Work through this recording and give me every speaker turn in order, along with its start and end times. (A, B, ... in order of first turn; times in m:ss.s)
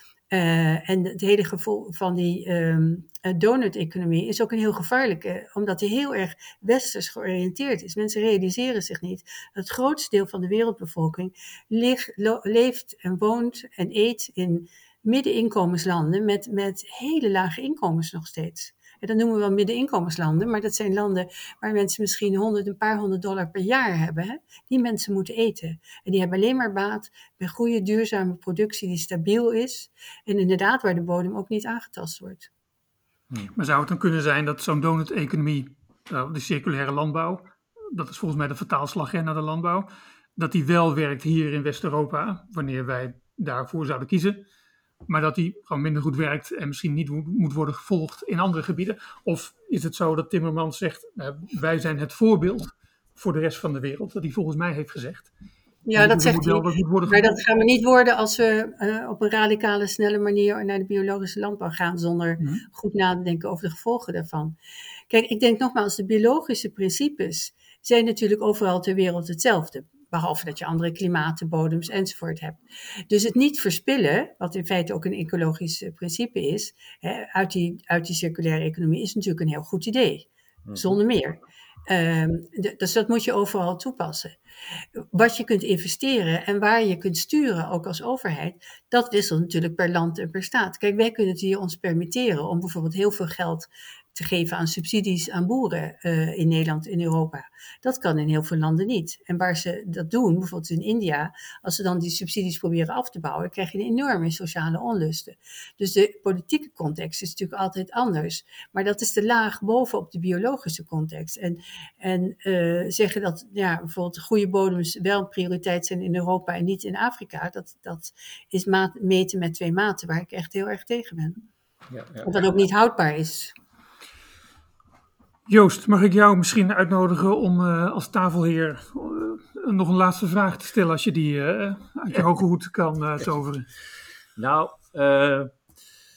0:00.3-0:32.5 A
0:33.5-0:44.4 B
0:45.1-0:55.3 B
0:55.9-1:04.5 A
0:55.9-0:57.4 B
1:05.1-1:24.3 A
1:20.6-1:21.0 C
1:25.0-2:01.4 A
2:01.9-2:02.3 C
2:02.2-2:03.5 A
2:05.5-2:13.7 B
2:14.4-2:15.5 C